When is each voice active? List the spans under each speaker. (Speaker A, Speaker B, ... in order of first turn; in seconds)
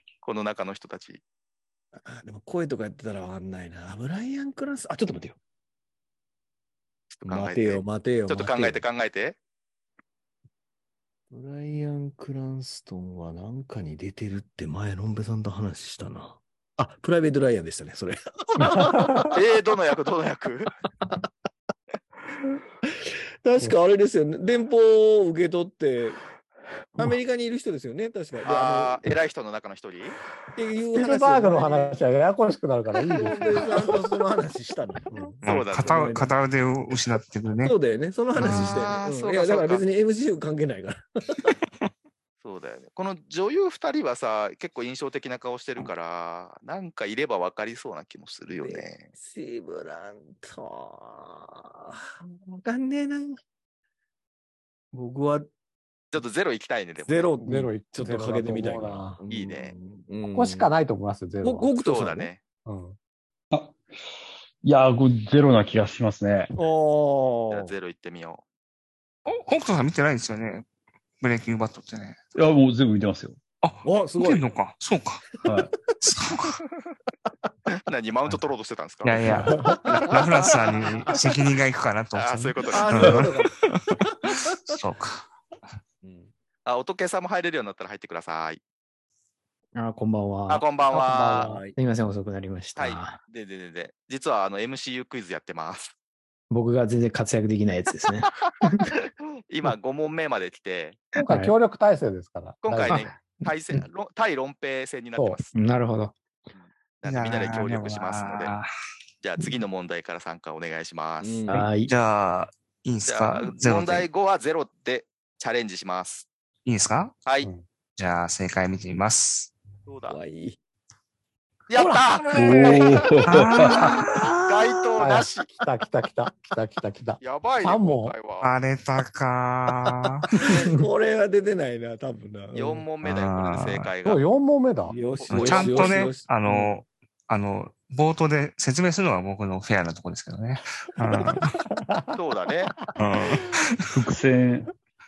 Speaker A: 0.2-1.2, 7.1-9.4, 19.3-20.7, 28.4-30.2, 35.4-36.1, 38.4-39.9, 42.4-49.1, 56.1-57.3, 59.3-59.7, 61.8-62.4, 67.5-68.4, 77.7-79.2, 80.0-81.1, 82.1-83.3, 86.6-88.6, 90.5-91.5, 92.7-95.9, 99.5-101.0, 102.6-105.5, 106.5-108.5, 109.2-111.5, 113.1-116.3, 117.2-117.5, 119.9-120.2, 121.7-123.1, 124.4-125.5, 127.2-128.5, 130.4-130.7, 132.5-134.2, 135.2-136.1, 142.1-142.9
Speaker B: 2.0-5.4, 7.3-8.8, 11.3-19.4, 21.0-21.3, 22.8-26.2, 27.0-29.0, 30.5-32.0, 33.1-36.3, 37.6-41.6, 48.6-53.4, 54.9-55.5, 57.1-60.7, 61.4-62.3, 66.5-67.7, 73.8-74.5, 79.6-81.1, 82.7-84.8, 86.0-86.3, 91.4-91.7, 111.2-111.7, 120.1-120.6, 130.4-132.8, 134.9-136.7
Speaker C: 18.6-19.3, 30.9-33.6, 35.1-35.4, 57.4-59.2, 60.2-61.7, 62.7-63.0, 79.3-79.8, 90.9-91.6, 101.2-103.0, 121.7-122.8, 125.0-128.2, 134.1-135.0, 141.9-142.2
Speaker D: 35.4-37.7, 38.4-38.8, 69.3-70.7, 71.2-72.2, 73.6-75.4, 76.0-76.6, 79.0-85.3, 107.1-108.7, 111.9-114.1, 116.6-117.1, 118.0-119.5, 123.3-124.2, 128.4-130.3, 133.0-133.9, 135.3-141.5, 142.9-143.6
Speaker E: 63.5-63.8, 64.6-66.5, 72.3-73.4, 75.4-75.7, 122.3-123.9, 143.9-144.7
Speaker F: 89.7-90.7, 91.8-93.2, 96.5-98.9, 101.1-101.5, 102.9-103.8, 105.5-106.1, 111.5-111.9